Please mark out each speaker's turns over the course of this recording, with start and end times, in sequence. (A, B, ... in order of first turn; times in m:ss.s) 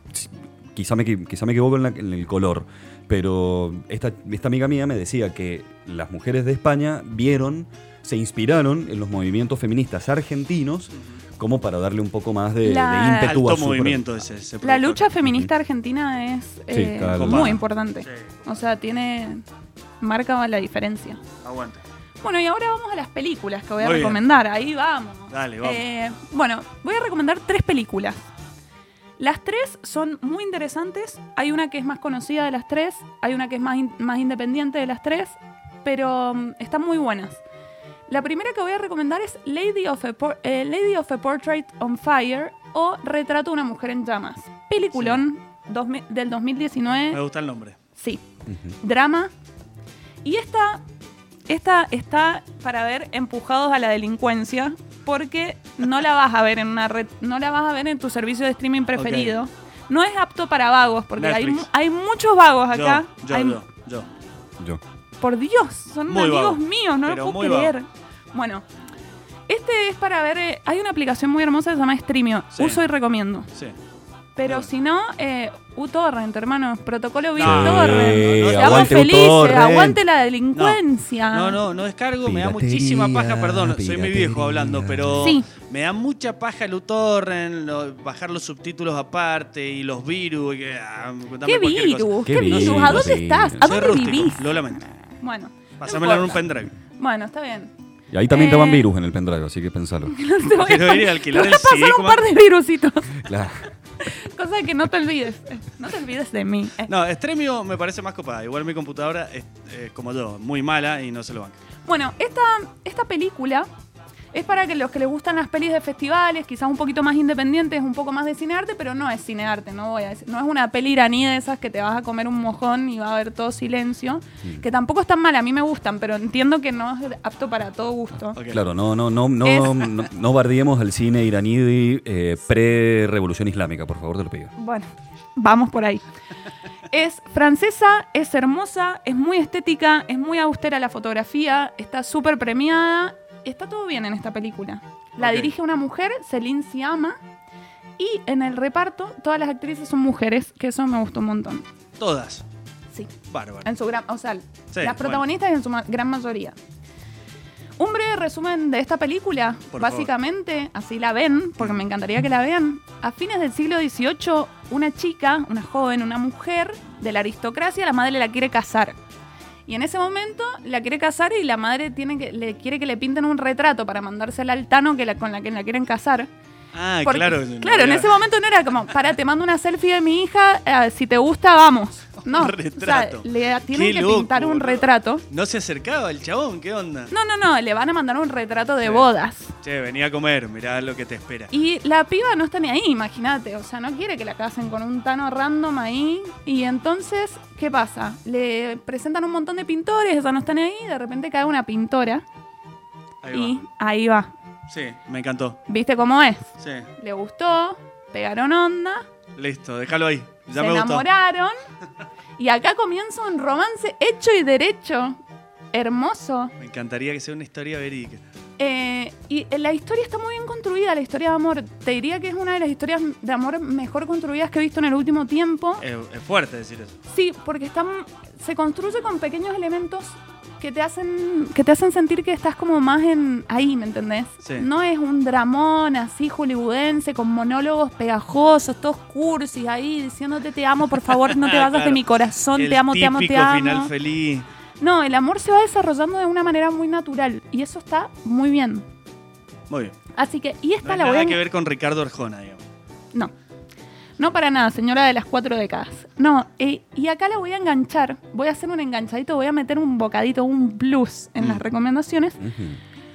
0:00.1-0:14.0 A
0:12.6-0:13.4 B
0:13.2-0:15.1 C
0:14.6-0:19.4 B
0:15.2-0:15.5 A
0:16.7-0:17.6 A
0:17.1-0:18.4 C
0:20.0-0:21.2 B
0:21.4-0:21.8 C
0:22.2-0:28.2 B
0:23.8-0:24.2 C
0:25.3-0:25.8 C
0:29.2-0:37.4 B
0:38.1-0:47.2 B
0:44.9-0:45.2 C
0:47.1-0:47.8 C
0:48.5-0:48.7 A
0:48.8-0:49.3 B
0:50.2-0:50.8 B
0:51.5-1:03.6 B
0:58.9-0:59.4 C
1:01.2-1:01.7 C
1:02.7-1:04.1 C
1:05.2-1:08.6 B
1:06.1-1:07.7 C
1:09.5-1:13.5 B
1:12.5-1:12.8 C
1:14.4-1:21.6 B
1:17.4-1:19.3 C
1:17.4-1:20.0 A
1:20.5-1:20.8 C
1:21.3-1:34.8 C
1:22.2-1:25.3 A
1:25.2-1:25.5 B
1:31.4-1:34.6 B
1:32.2-1:33.7 A
1:35.2-1:36.4 B
1:35.8-1:36.7 C
1:37.0-1:37.7 B
1:38.1-1:40.1 A
1:38.3-1:38.9 B
1:40.0-1:43.2 B
1:40.6-1:42.2 C
1:43.2-1:43.6 A
1:44.0-1:46.9 B
1:46.9-1:51.6 C
1:51.8-1:53.7 B
1:54.3-2:08.4 B
2:08.4-2:08.6 C
2:08.5-2:14.5 A
2:09.4-2:09.9 B
2:14.6-2:16.0 B
2:16.9-2:27.2 B
2:25.2-2:25.5 C
2:28.0-2:31.6 B
2:32.0-2:32.4 C
2:33.3-2:33.7 C
2:33.6-2:36.5 B
2:34.7-2:35.2 C
2:37.8-2:48.9 B
2:39.7-2:40.1 C
2:49.7-2:56.3 B
2:56.7-2:58.2 C
2:57.0-3:05.2 B
3:02.2-3:07.1 C
3:07.1-3:09.5 B
3:08.8-3:09.1 C
3:09.6-3:11.5 C
3:11.5-3:22.2 B
3:23.2-3:23.6 C
3:23.3-3:24.3 B
3:24.7-3:25.6 C
3:25.7-3:29.0 B
3:26.6-3:26.9 C
3:29.4-3:31.0 C
3:30.5-3:31.6 B
3:32.4-3:35.2 B
3:35.7-3:36.5 B
3:36.6-3:38.2 C
3:38.6-3:45.8 B
3:45.8-3:47.0 C
3:47.1-4:03.9 B
4:01.3-4:02.0 C
4:02.5-4:04.5 C
4:04.8-4:08.8 B
4:09.7-4:10.0 C
4:10.2-4:11.4 B
4:10.8-4:12.6 C
4:14.2-4:22.4 B
4:22.4-4:22.8 A